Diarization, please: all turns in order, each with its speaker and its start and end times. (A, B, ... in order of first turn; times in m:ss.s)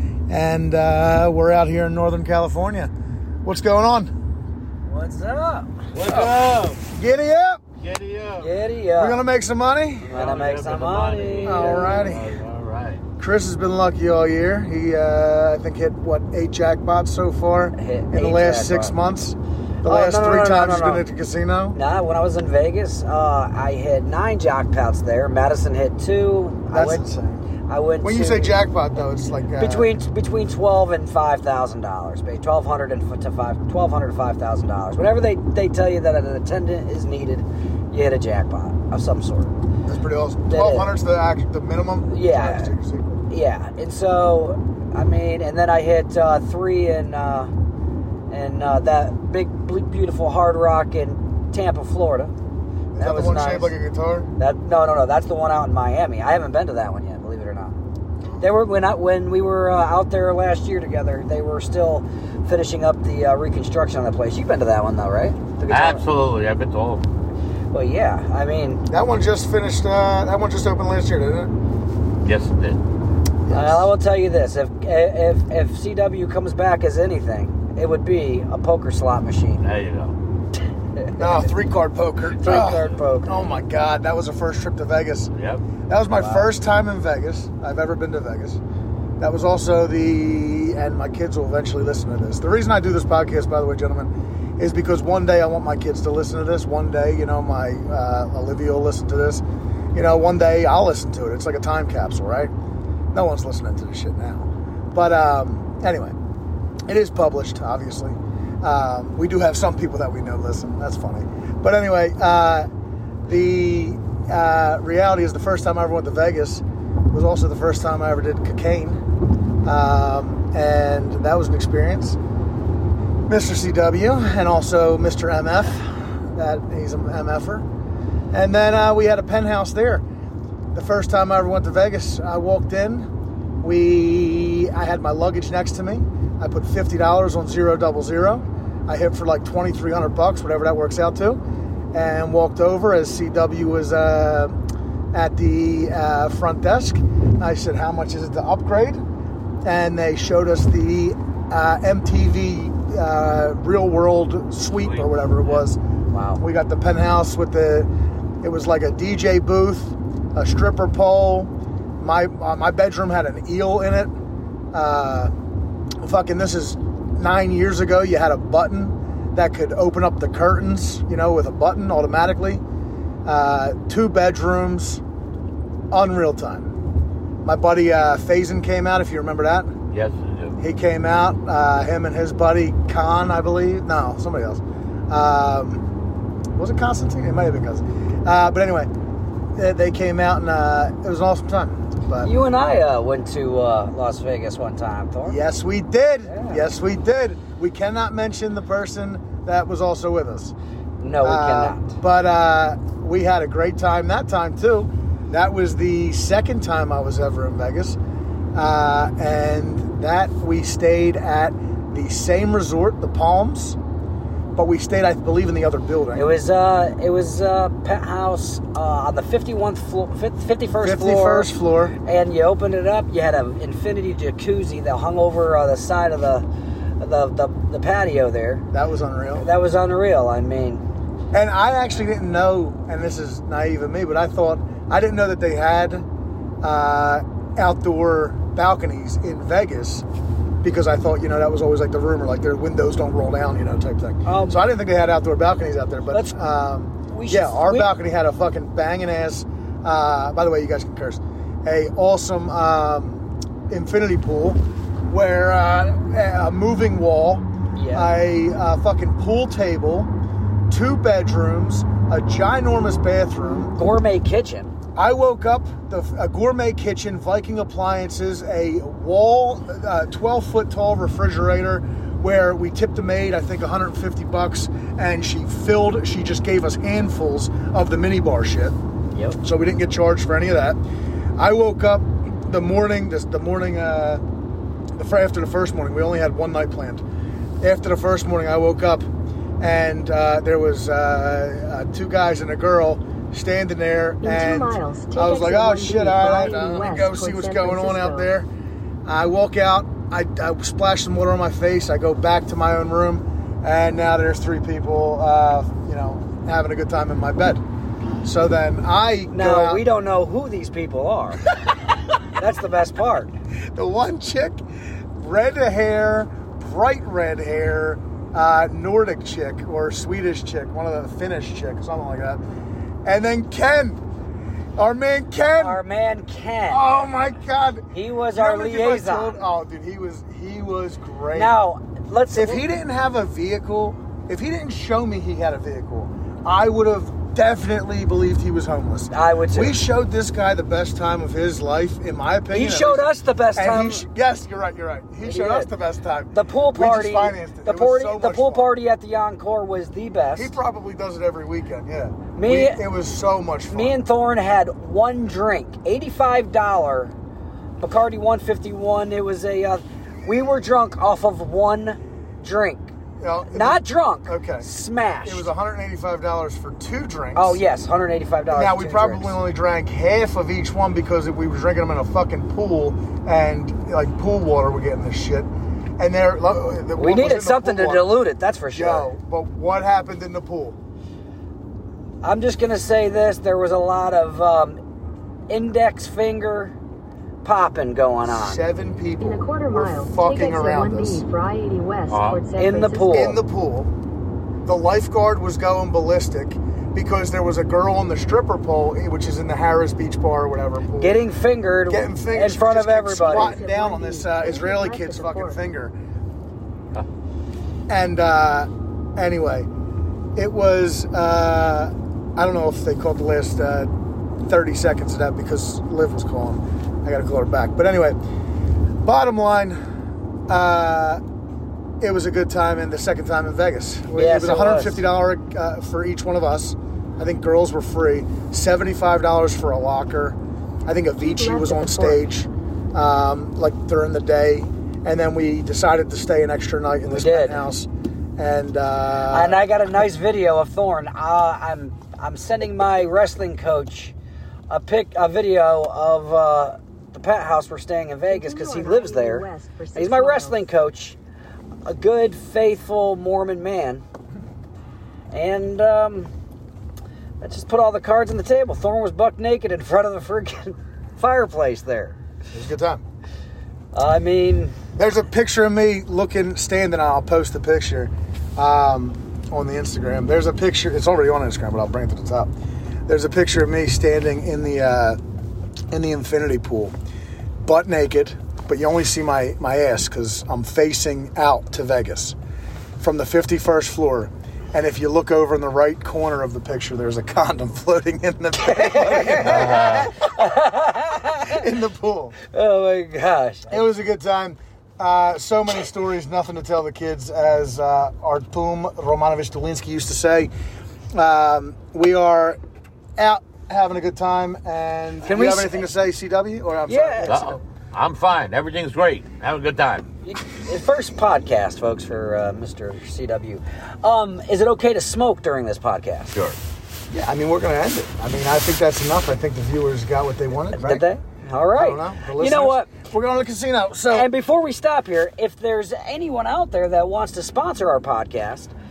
0:00.3-0:02.9 A
0:03.4-0:04.1 A
0:04.8-0:05.8 B
0:05.9-0:06.8 C
0:06.1-0:06.3 A
0:06.9-0:07.6 A
0:07.8-0:08.6 C
0:08.4-0:09.2 B
0:09.0-0:10.2 A
0:10.1-0:12.1 B
0:10.1-0:13.0 C
0:11.4-0:12.3 A
0:13.2-0:21.8 A
0:17.8-0:18.9 B
0:19.8-0:21.1 B
0:21.7-0:27.0 B
0:26.7-0:27.4 A
0:27.7-0:28.5 B
0:28.0-0:29.9 A
0:29.6-0:39.5 B
0:39.8-0:43.2 A
0:40.5-0:40.9 B
0:42.1-0:42.7 B
0:43.3-0:47.5 B
0:48.3-0:52.3 B
0:52.9-0:54.3 A
0:53.0-0:53.7 B
0:54.4-0:57.7 B
0:58.2-0:58.5 A
0:58.4-1:06.0 B
1:05.7-1:07.0 C
1:07.7-1:08.8 B
1:08.9-1:11.5 A
1:12.2-1:12.8 C
1:13.4-1:13.9 A
1:13.5-1:19.6 B
1:19.6-1:20.1 C
1:21.0-1:21.5 B
1:21.2-1:25.3 A
1:22.4-1:23.6 B
1:25.4-1:25.6 C
1:25.9-1:28.6 A
1:26.1-1:26.5 B
1:29.2-1:39.4 A
1:39.9-1:42.5 A
1:43.1-1:46.1 A
1:46.9-1:52.7 A
1:53.2-1:59.0 A
1:59.6-2:02.2 A
2:03.3-2:07.6 A
2:08.3-2:10.0 A
2:10.7-2:13.1 A
2:13.6-2:21.4 A
2:21.9-2:24.6 A
2:25.1-2:29.0 A
2:29.6-2:35.8 A
2:36.1-2:36.4 B
2:36.4-2:37.9 A
2:38.4-2:44.1 A
2:44.7-2:45.3 A
2:46.0-2:52.6 A
2:53.2-2:55.0 A
2:55.9-2:56.7 A
2:57.4-2:59.7 A
2:59.9-3:00.5 C
3:00.6-3:05.8 A
3:06.6-3:08.9 A
3:09.6-3:12.3 A
3:12.2-3:15.4 B
3:15.2-3:20.5 A
3:16.3-3:16.7 B
3:21.0-3:21.9 B
3:21.2-3:28.0 A
3:28.5-3:33.8 A
3:34.5-3:36.3 A
3:36.1-3:46.4 B
3:40.8-3:41.9 A
3:47.0-3:48.6 B
3:48.7-3:49.5 A
3:49.4-3:50.8 B
3:51.3-3:56.0 A
3:56.6-4:00.0 A
4:00.6-4:20.1 A
4:04.3-4:04.6 B
4:06.1-4:06.4 B
4:07.1-4:07.9 B
4:17.7-4:18.2 B
4:20.7-4:23.7 A
4:23.8-4:24.7 B
4:24.9-4:38.7 A
4:39.1-4:39.4 B
4:39.4-4:40.8 A
4:41.4-4:44.2 A
4:44.9-4:47.0 A
4:47.6-4:49.0 A
4:49.6-4:58.5 A
4:54.2-4:58.3 D
4:59.0-5:07.6 A
5:08.2-5:09.8 A
5:09.3-5:11.5 B
5:12.4-5:13.3 B
5:13.7-5:14.6 A
5:15.2-5:22.4 A
5:23.0-5:24.0 A
5:24.8-5:25.8 A
5:25.6-5:26.8 B
5:26.7-5:31.5 A
5:27.9-5:29.4 B
5:31.3-5:32.6 B
5:32.3-5:48.7 A
5:39.1-5:39.8 B
5:42.5-5:44.0 B
5:45.2-5:45.7 B
5:46.3-5:50.6 B
5:50.4-5:54.0 A
5:52.3-5:52.8 B
5:53.7-5:57.1 B
5:57.8-6:02.9 B
6:03.2-6:04.7 A
6:03.5-6:05.5 B
6:05.2-6:07.6 A
6:07.4-6:09.4 B
6:08.5-6:18.1 A
6:17.0-6:19.1 B
6:18.7-6:20.8 A
6:22.2-6:24.8 B
6:25.5-6:26.7 B
6:27.4-6:28.6 B
6:28.2-6:31.2 A
6:29.2-6:33.3 D
6:32.1-6:32.4 C
6:32.6-6:33.4 B
6:33.1-6:33.9 A
6:34.6-6:41.2 A
6:41.0-6:43.6 B
6:41.9-6:45.9 A
6:43.2-6:45.6 D
6:47.9-6:49.7 A
6:50.4-6:53.9 A
6:54.4-6:58.2 A
6:59.0-6:59.8 A
7:00.5-7:01.2 A
7:02.0-7:19.6 A
7:04.1-7:05.0 B
7:11.2-7:12.3 D
7:17.1-7:17.7 B
7:19.3-7:24.1 B
7:24.7-7:31.2 B
7:28.3-7:30.6 D
7:31.8-7:34.0 B
7:35.3-7:36.3 B
7:37.4-7:42.2 B
7:42.5-7:43.0 A
7:43.9-7:44.8 B
7:45.0-7:52.5 A
7:53.1-7:55.2 A
7:55.9-7:56.9 A
7:57.6-8:02.4 A
8:03.0-8:10.1 A
8:08.6-8:11.6 B
8:09.4-8:10.1 C
8:11.5-8:12.4 A
8:12.5-8:13.8 B
8:13.7-8:20.5 A
8:21.1-8:22.6 A
8:23.2-8:27.6 A
8:25.2-8:25.9 B
8:26.9-8:27.4 B
8:27.3-8:30.1 C
8:30.2-8:36.3 B
8:37.1-8:41.1 A
8:40.7-8:42.9 B
8:41.8-8:44.3 A
8:44.1-8:48.7 B